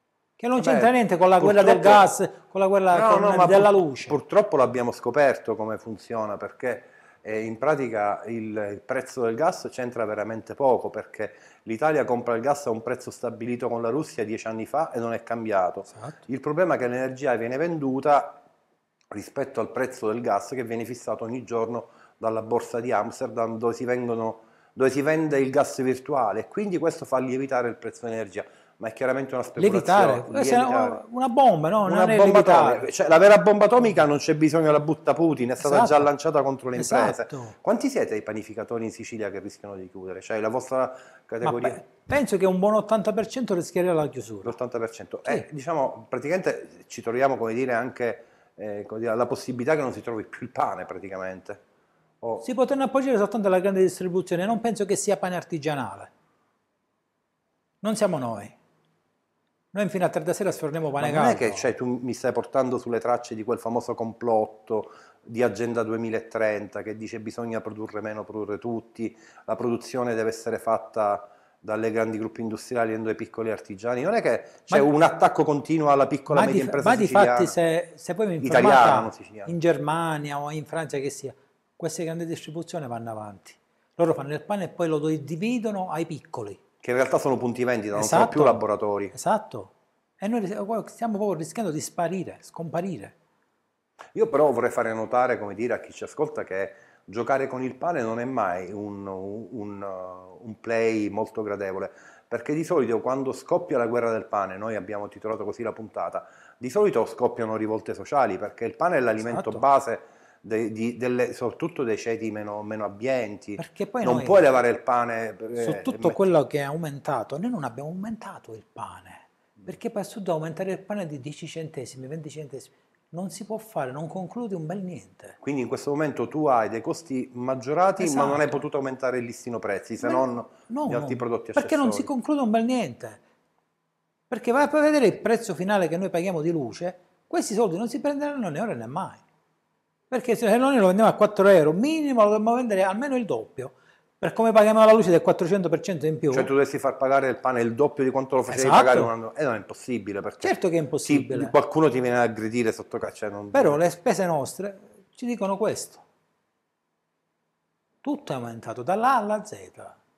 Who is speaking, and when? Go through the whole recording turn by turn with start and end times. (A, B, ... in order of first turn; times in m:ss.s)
0:00.4-0:04.2 A
0:00.6-0:02.1 B
0:02.9-0:18.4 B
0:15.9-0:16.2 A
0:19.1-0:31.0 B
0:29.6-0:32.9 A
0:31.8-0:41.8 B
0:35.6-0:36.1 A
0:36.8-0:37.5 A
0:41.4-0:44.5 A
0:44.4-0:51.6 B
0:52.4-0:56.1 A
0:57.8-0:58.6 A
0:59.7-1:01.7 A
1:01.0-1:17.5 B
1:16.3-1:26.6 A
1:18.4-1:19.5 B
1:26.8-1:29.1 B
1:27.9-1:33.1 A
1:34.1-1:56.2 B
1:49.2-1:49.6 A
1:53.6-1:54.5 A
1:55.6-2:05.4 A
2:05.4-2:12.1 B
2:08.0-2:08.6 A
2:10.0-2:13.2 A
2:14.3-2:19.2 A
2:20.1-2:26.5 A
2:26.3-2:33.8 B
2:28.5-2:29.1 A
2:30.4-2:31.5 A
2:33.5-2:36.0 A
2:38.0-2:40.0 A